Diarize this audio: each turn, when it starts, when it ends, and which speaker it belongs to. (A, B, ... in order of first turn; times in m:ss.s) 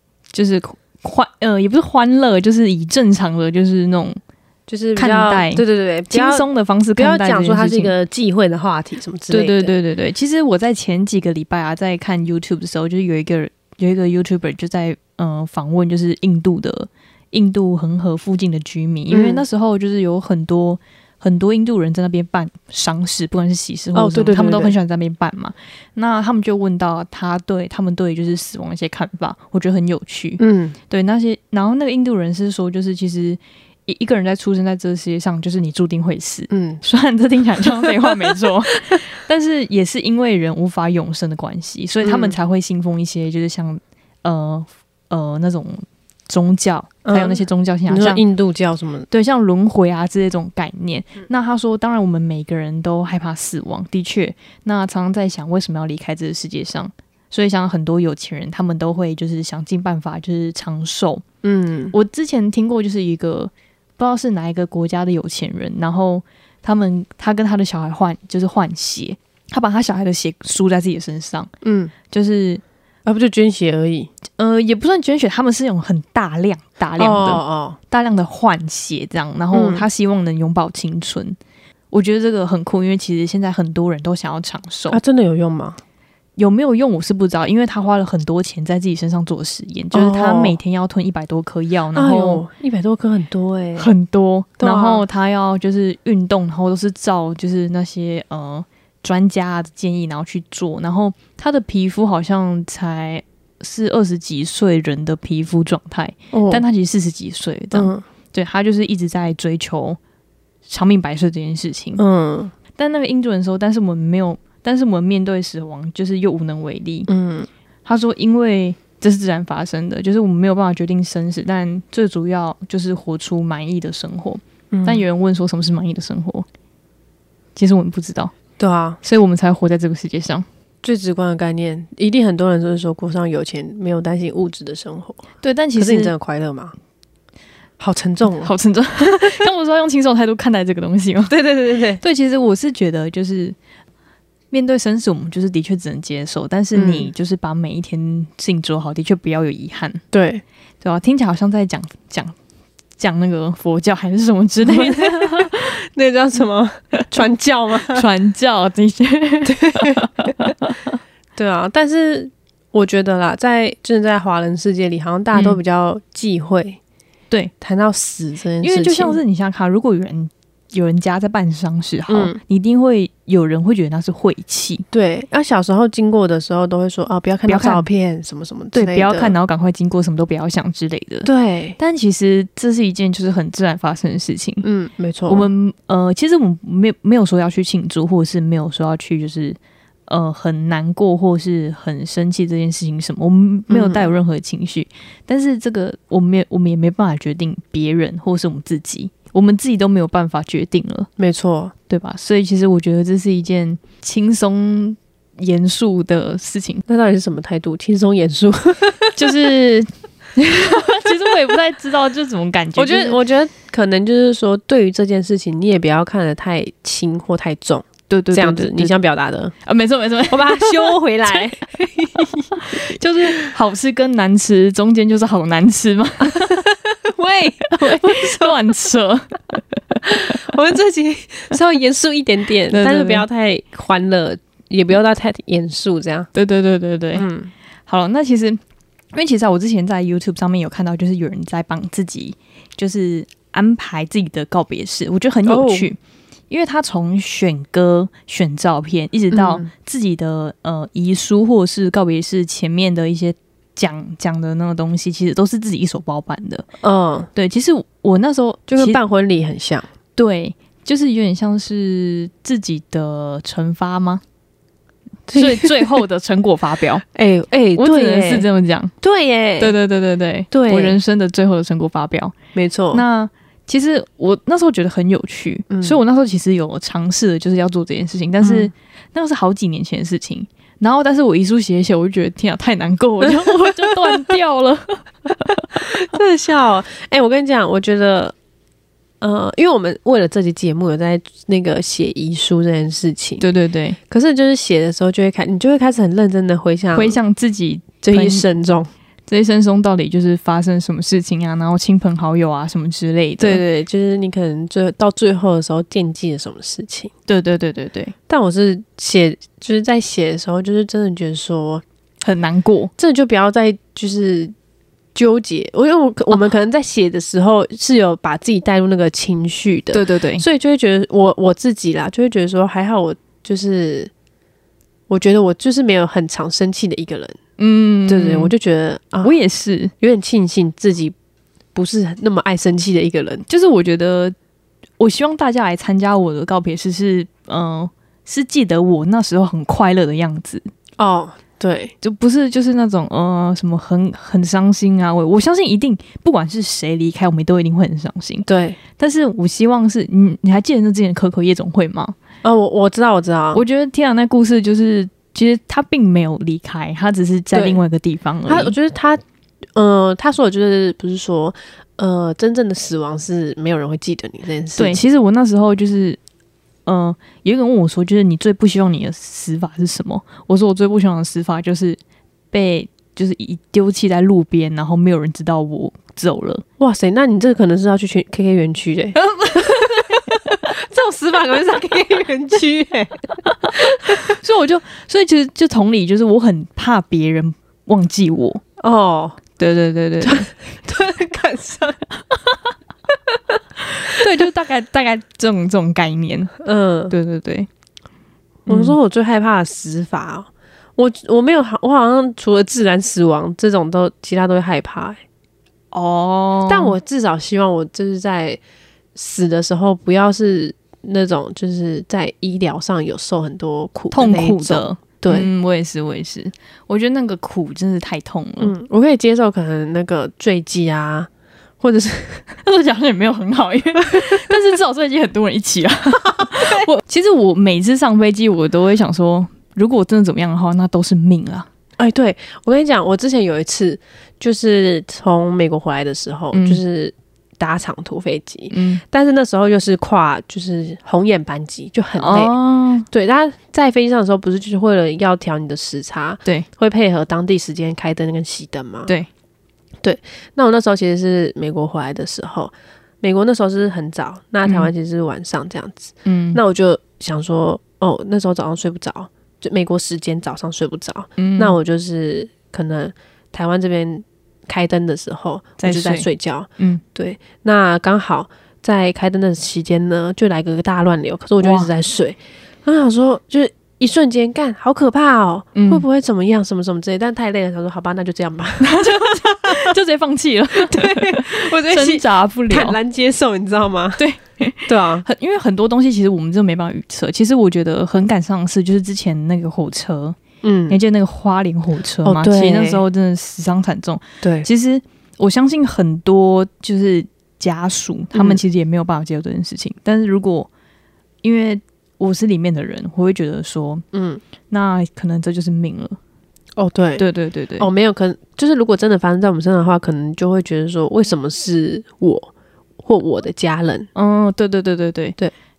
0:00.3-0:04.2 A
0:04.7-0:09.7 B
0:05.0-0:07.9 A
0:09.3-0:48.2 A
0:19.1-0:19.4 B
0:23.9-0:24.8 B
0:30.4-0:30.8 B
0:36.5-0:36.8 B
0:37.6-0:39.0 B
0:42.0-0:42.4 B
0:47.0-0:49.1 B
0:49.1-1:01.2 A
1:01.4-1:01.9 B
1:01.9-1:11.5 A
1:11.6-1:11.9 B
1:12.1-1:12.6 A
1:13.1-1:14.1 B
1:14.4-1:21.4 A
1:17.0-1:17.8 B
1:19.5-1:19.9 B
1:21.9-1:25.0 A
1:24.9-1:25.8 B
1:26.4-1:32.4 A
1:29.9-1:30.6 B
1:32.0-1:33.9 B
1:33.8-1:50.0 A
1:34.6-1:35.0 B
1:46.3-1:46.6 B
1:47.7-1:48.0 B
1:50.7-1:52.0 A
1:52.0-1:52.5 B
1:52.8-1:57.1 A
1:57.1-1:57.5 B
1:57.8-2:06.5 A
2:04.7-2:05.0 B
2:07.6-2:08.3 A
2:08.6-2:09.0 B
2:09.0-2:10.5 A
2:10.8-2:15.2 B
2:15.4-2:16.1 A
2:15.8-2:16.7 B
2:17.8-2:18.5 B
2:18.4-2:21.4 A
2:21.3-2:22.0 B
2:22.0-2:23.6 A
2:24.5-2:30.0 A
2:26.7-2:27.1 B
2:30.1-2:30.4 B
2:30.8-2:32.4 A
2:33.0-2:35.8 A
2:34.6-2:38.0 B
2:37.9-2:41.0 A
2:39.5-2:40.3 B
2:41.4-2:46.8 B
2:45.3-2:45.6 A
2:47.6-2:49.2 B
2:48.6-2:54.8 A
2:52.1-2:52.4 B
2:54.9-2:59.3 B
2:57.5-2:57.9 A
2:58.7-3:04.6 A
3:01.2-3:01.8 B
3:04.6-3:05.5 B
3:05.3-3:21.1 A
3:13.7-3:14.1 B
3:21.2-3:21.7 B
3:21.9-3:26.8 A
3:26.9-3:29.2 B
3:29.2-3:33.2 A
3:32.8-3:39.5 B
3:38.1-3:38.9 A
3:39.6-3:41.0 A
3:40.3-3:43.5 B
3:42.7-3:46.6 A
3:46.2-3:48.6 B
3:47.8-3:50.4 A
3:50.0-3:56.3 B
3:52.7-3:53.2 A
3:56.3-3:57.3 A
3:57.2-3:57.5 B
3:57.9-3:58.6 A
3:59.1-4:06.0 A
4:05.5-4:05.9 B
4:06.5-4:16.7 A
4:09.3-4:09.7 B
4:16.8-4:17.3 B
4:17.4-4:19.0 A
4:18.7-4:19.9 B
4:20.2-4:24.2 A
4:25.3-4:25.9 B
4:25.4-4:27.0 A
4:27.1-4:28.5 B
4:27.8-4:28.9 A
4:29.0-4:29.7 B
4:29.6-4:32.4 A
4:30.5-4:31.0 B
4:32.5-4:33.0 B
4:32.9-4:45.7 A
4:35.7-4:36.0 B
4:38.4-4:38.7 B
4:43.2-4:44.3 B
4:45.7-4:48.3 B
4:49.2-4:53.4 B
4:53.4-4:54.0 A
4:54.1-4:57.2 B
4:57.0-4:58.5 A
4:58.0-4:58.9 B
4:59.3-5:03.6 A
5:03.4-5:07.1 B
5:07.3-5:08.1 A
5:08.3-5:11.8 B
5:12.2-5:12.9 A
5:13.0-5:14.5 B
5:15.2-5:24.1 B
5:19.9-5:20.4 A
5:25.1-5:27.4 B
5:27.6-5:28.5 A
5:28.1-5:29.3 B
5:29.2-5:29.9 A
5:30.0-5:31.2 B
5:31.8-5:33.4 B
5:33.5-5:34.4 A
5:35.0-5:40.6 A
5:41.0-5:41.9 B
5:42.0-5:52.2 A
5:48.5-5:48.8 B
5:52.4-5:53.6 B
5:53.5-5:58.7 A
5:57.5-5:57.8 B
5:58.5-5:59.2 B
5:59.8-6:05.0 B
6:04.8-6:06.2 A
6:06.9-6:12.0 A
6:12.5-6:16.6 A
6:16.8-6:24.3 B
6:19.2-6:20.3 A
6:23.7-6:28.6 A
6:28.8-6:29.4 B
6:29.6-6:30.5 A
6:30.2-6:32.1 B
6:34.1-6:36.5 A
6:36.6-6:37.2 B
6:37.1-6:37.7 A
6:38.7-6:45.2 B
6:38.7-6:39.0 A
6:45.9-6:47.0 A
6:46.7-6:48.6 B
6:49.2-6:55.5 B
6:54.1-6:58.7 A
6:58.6-7:01.3 B
7:01.8-7:02.5 B
7:02.6-7:11.7 A
7:04.2-7:04.5 B
7:06.3-7:06.9 B
7:12.0-7:22.5 B
7:16.5-7:16.8 A
7:18.7-7:19.0 A
7:22.2-7:23.1 A
7:23.1-7:29.1 B
7:30.0-7:59.9 B
7:36.2-7:36.6 A
7:41.4-7:41.8 A
7:45.8-7:46.3 A
7:46.8-7:47.0 A
7:51.6-7:51.9 A
7:55.8-7:56.0 A
7:58.8-8:03.0 A
8:00.8-8:04.2 B
8:04.2-8:10.4 A
8:04.9-8:05.3 B
8:10.6-8:11.0 B
8:10.9-8:20.7 A
8:12.2-8:13.0 B
8:14.4-8:14.7 B
8:18.3-8:18.6 B
8:21.4-8:24.0 A
8:24.1-8:24.4 B
8:24.7-8:26.2 A
8:26.8-8:27.2 B
8:27.2-8:27.9 A
8:27.8-8:32.5 B
8:33.0-8:34.1 B
8:34.2-8:35.4 A